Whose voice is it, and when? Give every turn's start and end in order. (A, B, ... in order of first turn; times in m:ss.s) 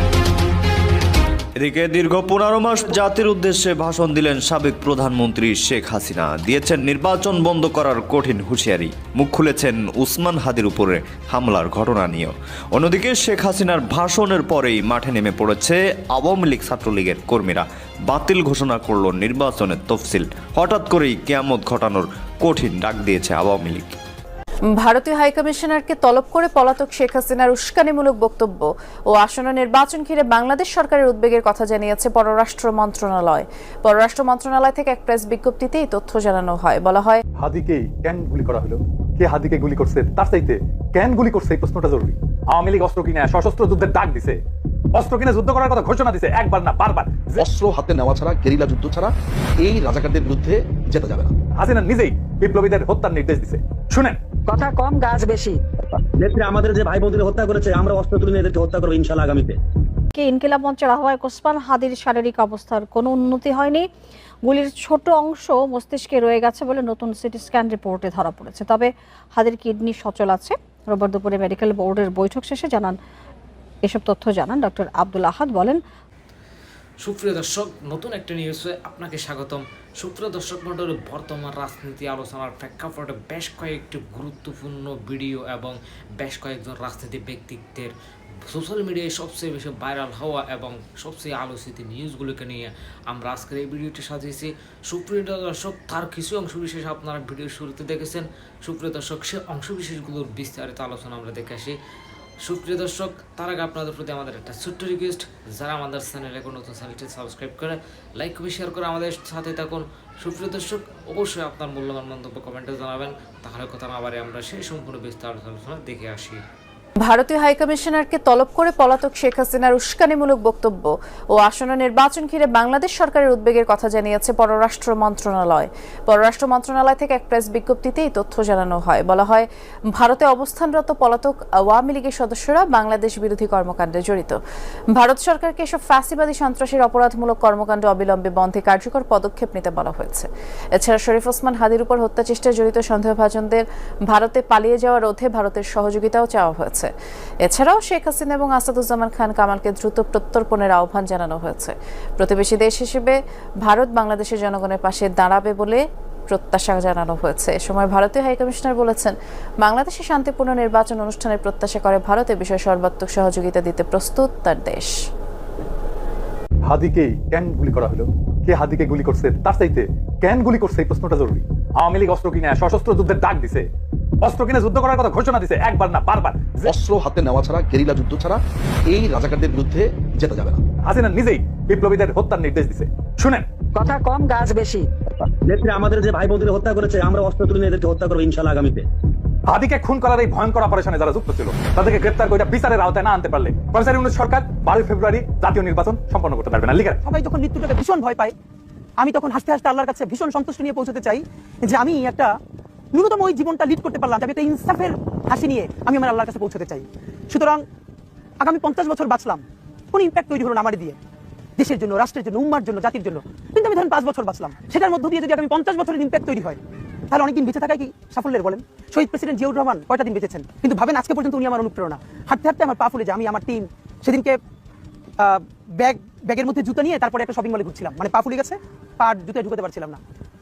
0:01.6-0:24.0 A
0:24.8-0:37.2 B
0:37.4-0:44.4 C
0:44.9-0:47.5 C
0:47.4-0:51.3 D
0:51.6-0:54.2 C
0:54.5-0:55.6 E
0:56.2-0:59.6 F
1:00.1-1:03.9 G
1:04.4-1:13.0 G
1:13.8-1:15.8 G
1:17.0-1:27.9 H
1:28.5-1:41.8 H
1:42.4-1:56.4 H
1:57.0-2:14.4 B
2:14.9-2:26.9 B
2:27.4-2:44.9 B
2:46.6-2:53.7 C
2:54.2-2:56.7 C
2:56.7-3:00.6 D
3:00.8-3:03.4 C
3:03.8-3:04.8 E
3:05.4-3:08.8 F
3:09.5-3:17.0 C
3:17.0-3:18.3 I
3:19.0-3:22.3 I
3:22.9-3:27.6 I
3:28.4-3:31.0 I
3:31.6-3:36.6 I
3:37.1-3:44.4 I
3:45.2-3:50.0 I